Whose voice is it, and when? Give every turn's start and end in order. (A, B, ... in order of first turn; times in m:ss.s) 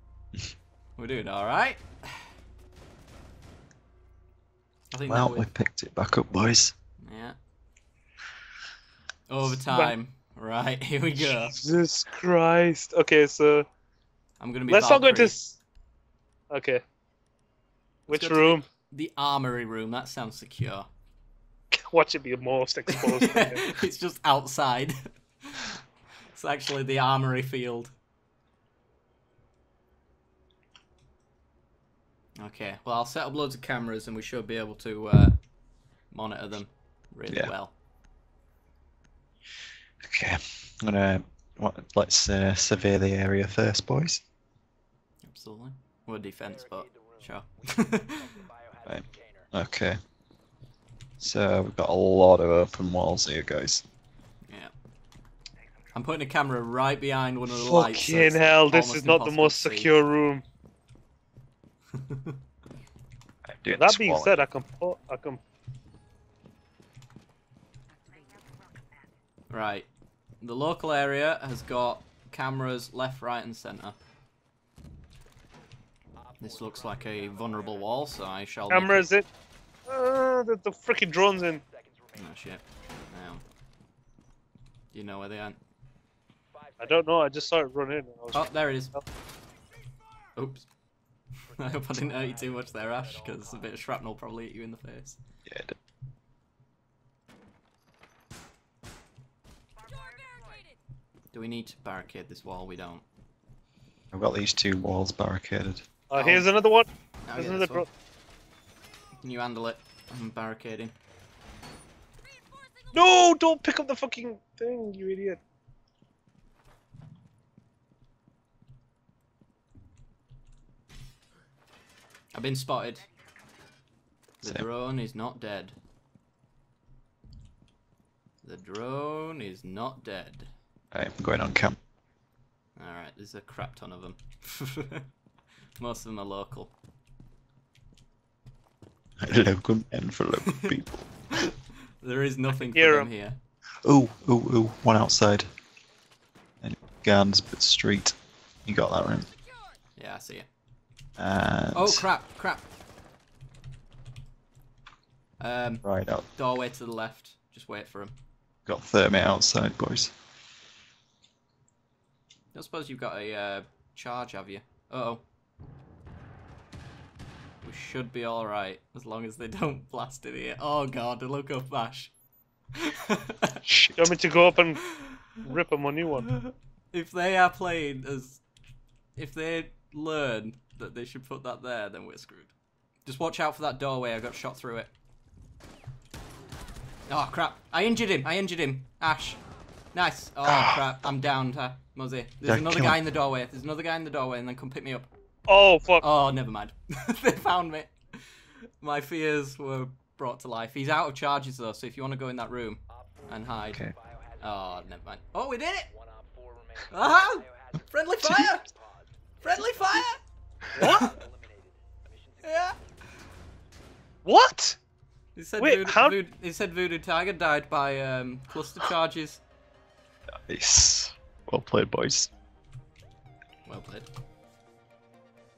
0:01.0-0:02.3 A
0:04.9-0:05.5 A
0:05.1-0:06.7 B
0:07.0-0:07.4 A
0:09.3-0:11.5 A
0:09.7-0:09.9 C
0:11.2-0:13.6 C
0:14.4-0:15.4 A
0:14.7-0:15.6 C
0:16.5-0:16.8 C
0:18.1-0:18.6 C
0:18.1-0:20.9 A
0:21.7-0:23.8 C
0:22.9-0:25.8 A
0:26.3-0:27.9 A
0:32.4-0:35.4 A
0:36.1-0:37.7 A
0:40.0-0:44.2 B
0:45.2-0:48.3 A
0:46.4-0:49.5 D
0:48.8-0:50.0 B
0:51.2-0:53.8 B
0:54.5-0:54.7 A
0:55.9-0:59.9 A
0:57.5-1:00.4 C
1:01.9-1:02.4 A
1:03.4-1:04.4 B
1:03.7-1:05.4 C
1:09.5-1:09.9 A
1:10.4-1:14.0 A
1:16.2-1:18.4 D
1:16.4-1:19.1 A
1:18.7-1:19.3 C
1:19.9-1:21.6 C
1:21.2-1:22.6 D
1:22.2-1:23.4 A
1:24.9-1:25.6 A
1:26.5-1:27.7 D
1:26.8-1:29.0 C
1:28.3-1:28.9 A
1:30.4-1:30.7 A
1:31.4-1:34.0 D
1:31.6-1:35.2 A
1:35.4-1:35.7 B
1:41.3-1:43.0 A
1:44.1-1:45.8 B
1:46.1-1:47.9 C
1:46.1-1:46.5 A
1:47.2-1:47.9 A
1:49.2-1:50.9 A
1:52.9-1:55.4 C
2:02.3-2:03.1 A
2:04.4-2:05.8 A
2:08.4-2:10.5 A
2:10.9-2:11.8 B
2:12.8-2:15.1 A
2:15.8-2:16.7 A
2:19.2-2:21.0 B
2:21.4-2:23.4 A
2:22.7-2:23.1 C
2:23.8-2:25.5 B
2:26.6-2:29.3 B
2:30.0-2:30.5 A
2:31.2-2:32.0 B
2:31.7-2:32.7 A
2:35.4-2:38.1 A
2:35.8-2:36.2 B
2:38.6-2:40.1 B
2:42.5-2:45.2 A
2:47.6-2:52.1 A
2:52.8-2:53.6 A
2:53.6-2:54.1 B
2:54.0-2:54.8 C
2:54.8-2:55.4 A
2:55.4-2:56.3 C
2:56.2-2:58.4 A
2:59.2-3:02.5 A
3:03.0-3:04.9 A
3:07.1-3:09.4 A
3:09.9-3:15.1 A
3:10.4-3:10.8 B
3:12.4-3:13.0 B
3:15.5-3:16.1 C
3:16.0-3:23.8 A
3:22.9-3:25.0 D
3:24.4-3:25.9 A
3:25.9-3:30.1 D
3:26.9-3:28.6 A
3:29.4-3:30.2 A
3:30.8-3:31.1 C
3:30.8-3:32.9 D
3:30.8-3:31.2 A
3:32.4-3:32.8 A
3:34.2-3:34.8 C
3:35.3-3:39.4 A
3:35.6-3:36.2 C
3:40.5-3:42.3 B
3:43.6-3:44.1 A